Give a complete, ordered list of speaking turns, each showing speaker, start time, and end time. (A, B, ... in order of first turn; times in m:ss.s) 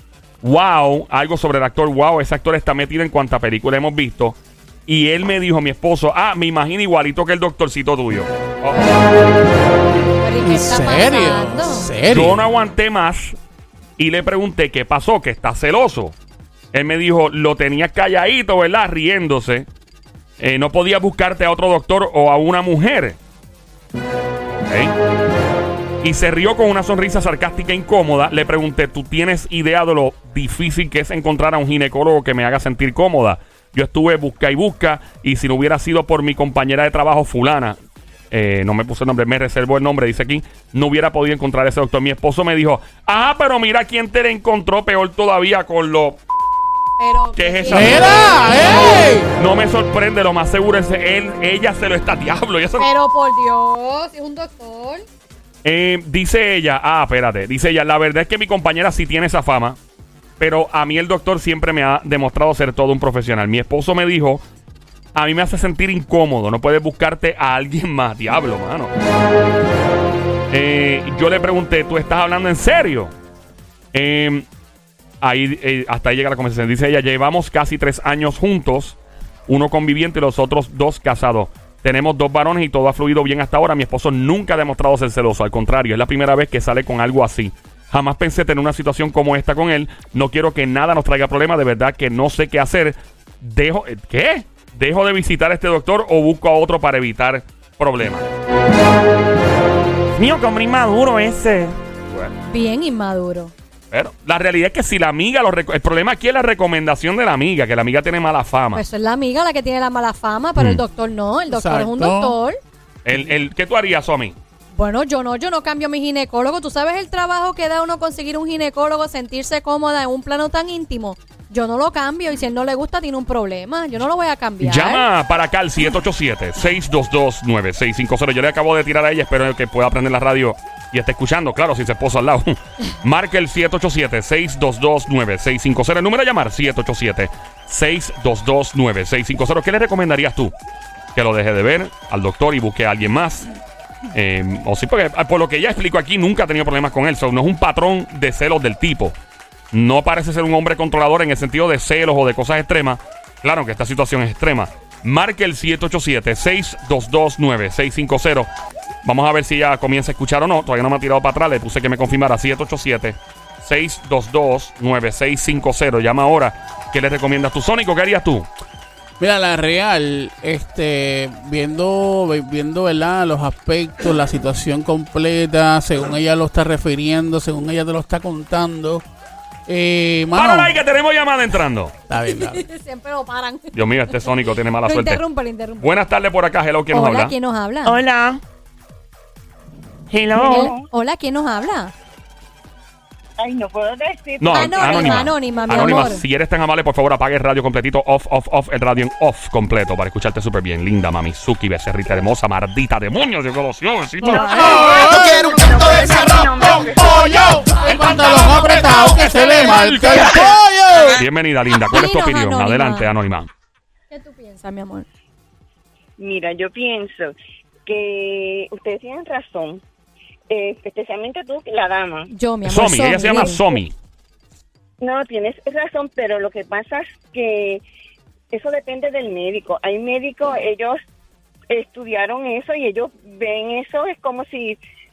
0:00.4-0:08.8 A
0:08.7-0:09.1 B
0:10.2-0:11.9 B
0:10.4-0:12.4 C
0:12.1-0:13.4 A
0:14.0-0:16.2 A
0:16.7-0:19.7 A
0:20.4-0:23.2 A
0:24.5-0:24.9 A
0:26.0-0:37.8 A
0:38.3-0:46.2 A
0:47.0-0:48.3 B
0:47.4-0:48.4 A
0:47.7-0:49.3 C
0:49.4-0:52.9 A
0:52.8-0:55.0 B
0:55.6-0:59.8 A
1:00.4-1:04.4 A
1:05.1-1:08.9 A
1:10.5-1:13.1 A
1:13.9-1:14.5 A
1:15.2-1:38.2 A
1:40.1-1:41.8 D
1:42.5-1:43.5 B
1:43.9-1:48.8 A
1:48.7-1:52.6 B
1:50.6-1:50.8 A
1:51.5-1:52.4 C
1:53.0-1:54.4 A
1:54.7-2:05.0 B
2:04.6-2:20.5 A
2:21.1-2:23.5 A
2:24.1-2:29.1 A
2:29.7-2:38.5 A
2:39.0-2:48.5 A
2:49.2-2:59.0 C
2:59.7-3:00.8 C
3:00.3-3:01.9 A
3:02.1-3:02.6 C
3:02.2-3:05.9 B
3:03.7-3:05.2 A
3:05.8-3:07.3 A
3:06.9-3:08.0 B
3:07.8-3:08.4 D
3:10.1-3:10.7 D
3:10.3-3:10.9 E
3:10.4-3:11.9 B
3:13.4-3:16.1 E
3:14.4-3:24.7 A
3:14.5-3:16.2 B
3:24.2-3:31.2 C
3:24.3-3:24.8 B
3:24.3-3:27.7 E
3:27.7-3:30.2 B
3:27.8-3:30.5 A
3:31.1-3:33.5 A
3:31.9-3:33.1 B
3:34.1-3:35.0 B
3:36.2-3:39.8 E
3:40.5-3:42.3 E
3:42.3-3:43.6 B
3:42.6-3:43.9 A
3:45.0-3:47.8 E
3:48.5-3:51.0 E
3:51.7-3:54.8 E